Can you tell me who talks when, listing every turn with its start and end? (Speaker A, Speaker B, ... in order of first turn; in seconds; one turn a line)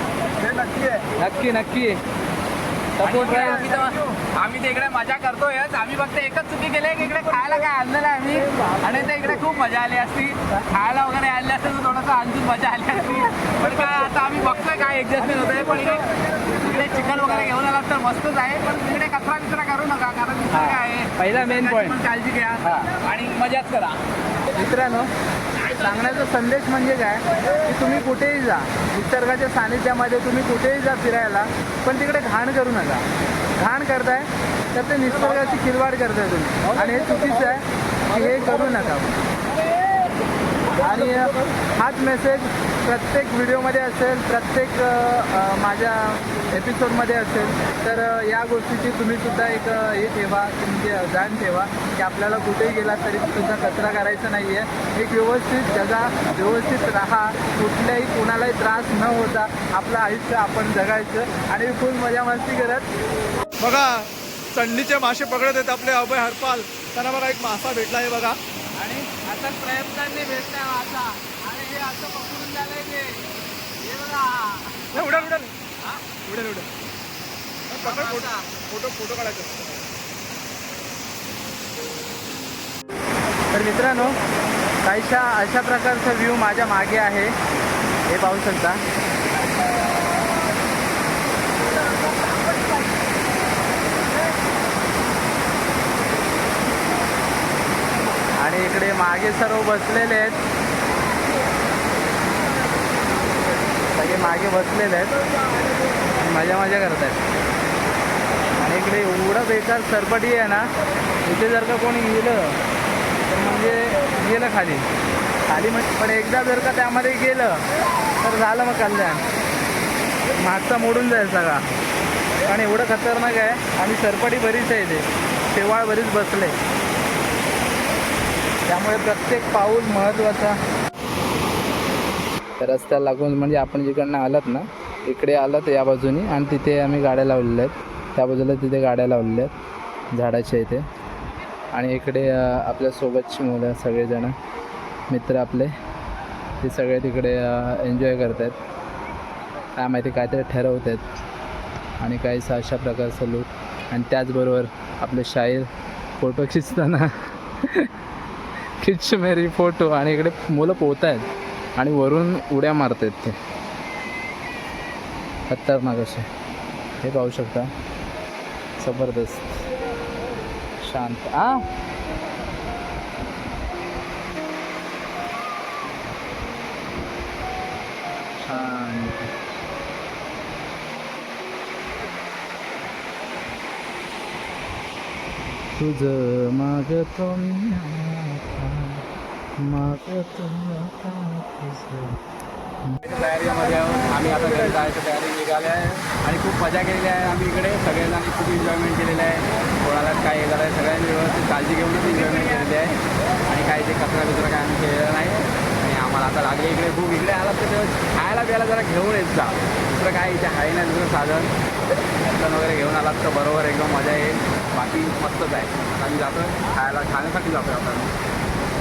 Speaker A: 0.4-1.0
Speaker B: 1.2-2.0
Speaker B: 3.0-3.6
Speaker C: 3.0-24.0
Speaker A: 3.2-4.2
Speaker B: 20.5-22.0
Speaker B: 22.6-22.9
Speaker B: 24.5-25.1
Speaker B: 25.6-33.0
Speaker B: 33.6-39.2
Speaker A: 36.6-37.5
Speaker A: 38.1-38.9
Speaker B: 40.8-62.9
Speaker A: 40.8-41.5
Speaker A: 63.6-68.4
Speaker B: 68.8-73.2
Speaker B: 73.8-75.3
Speaker A: 74.9-75.5
Speaker A: 76.2-76.7
Speaker A: 77.7-79.8
Speaker B: 77.8-78.5
Speaker B: 83.5-84.2
Speaker B: 84.8-87.3
Speaker B: 88.1-88.8
Speaker B: 98.4-100.4
Speaker B: 103.9-105.1
Speaker B: 106.1-107.2
Speaker B: 108.6-110.7
Speaker B: 111.2-112.6
Speaker B: 113.3-114.8
Speaker B: 115.5-117.6
Speaker B: 118.2-119.2
Speaker B: 120.3-121.7
Speaker B: 122.4-126.5
Speaker B: 128.7-130.6
Speaker B: 132.6-139.5
Speaker B: 140.1-140.8
Speaker B: 141.7-144.3
Speaker B: 145.1-145.7
Speaker B: 146.6-148.6
Speaker B: 149.8-151.0
Speaker B: 152.0-157.9
Speaker B: 158.8-163.3
Speaker B: 165.5-166.3
Speaker B: 167.0-167.7
Speaker B: 168.8-169.6
Speaker B: 170.8-171.6
Speaker B: 178.4-179.3
Speaker B: 185.8-189.0
Speaker B: 189.6-192.2
Speaker C: 193.0-202.9
Speaker C: 203.5-211.5
Speaker C: 212.2-218.1